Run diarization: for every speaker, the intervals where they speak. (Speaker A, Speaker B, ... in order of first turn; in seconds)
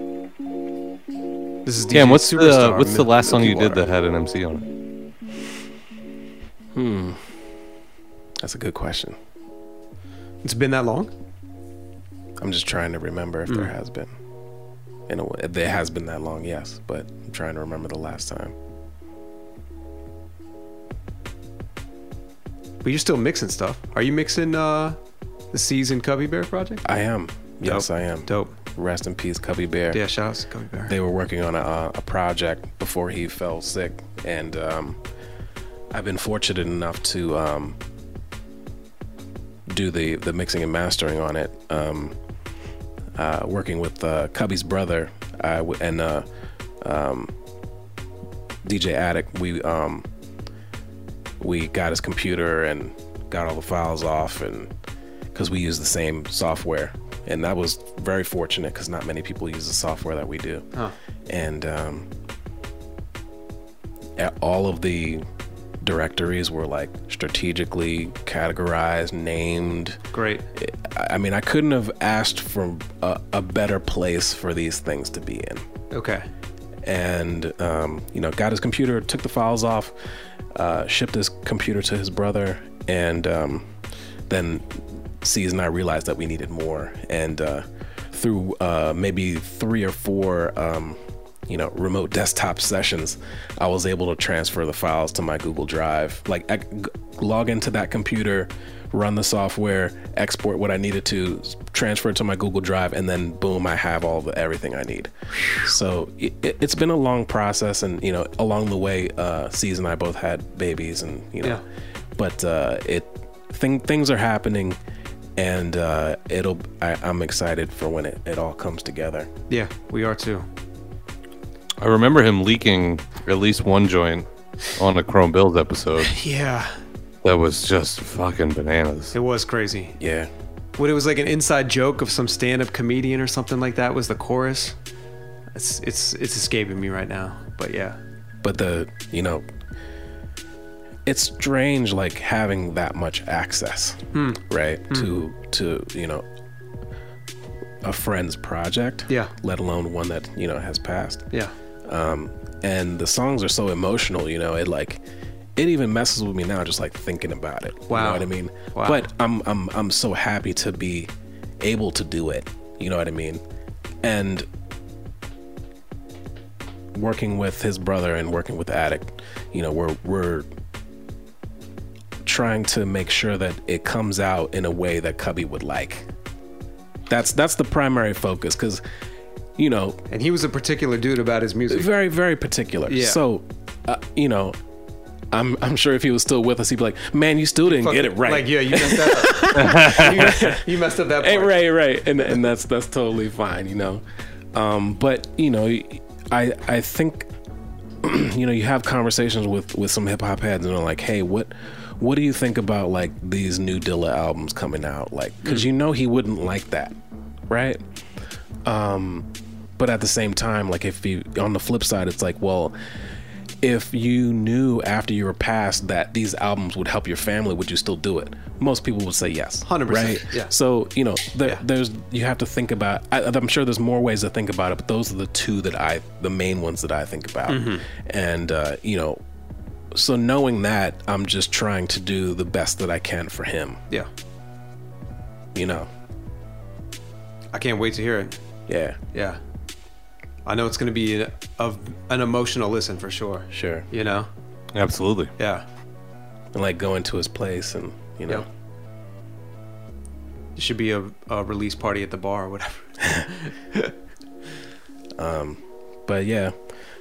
Speaker A: 1.6-3.8, 10.4-11.1, 13.5-13.7, 22.8-25.0, 25.5-26.8, 27.6-28.5, 29.9-30.9, 70.1-70.5, 75.9-76.3, 119.5-120.5, 126.0-126.7, 129.1-130.0, 130.8-134.7, 135.5-138.0, 144.1-145.1, 157.9-159.0, 180.1-181.9, 182.9-183.2, 187.7-191.7, 219.7-220.5, 227.5-227.8, 237.5-238.4, 239.1-239.4, 240.4-244.3, 245.4-245.6, 250.6-253.9
Speaker B: 1.9-4.6, 121.8-126.1, 127.2-129.1, 189.6-189.9, 244.7-245.3
Speaker C: 6.7-7.2, 8.4-9.2, 12.4-14.1, 15.1-18.5, 26.8-30.0, 30.9-35.0, 35.9-37.8, 39.7-42.1, 43.1-46.2, 46.8-47.3, 48.6-50.1, 51.4-54.7, 55.3-60.6, 61.3-62.1, 64.2-65.2, 65.8-70.0, 70.5-75.6, 76.8-79.9, 80.5-83.7, 84.3-111.6, 112.2-114.8, 115.3-119.3, 130.0-130.3, 138.4-139.4, 141.1-146.2, 147.8-151.3, 151.8-155.0, 155.6-163.4, 164.0-164.5, 166.9-170.5, 172.2-176.1, 177.1-178.8, 179.6-180.0, 181.7-184.6, 185.3-190.7, 191.2-197.3, 198.0-206.9, 207.5-207.8, 208.6-212.7, 213.6-229.2, 229.9-233.8, 235.5-235.9, 238.7-239.0, 243.5-243.8, 246.5-248.5, 255.2-256.5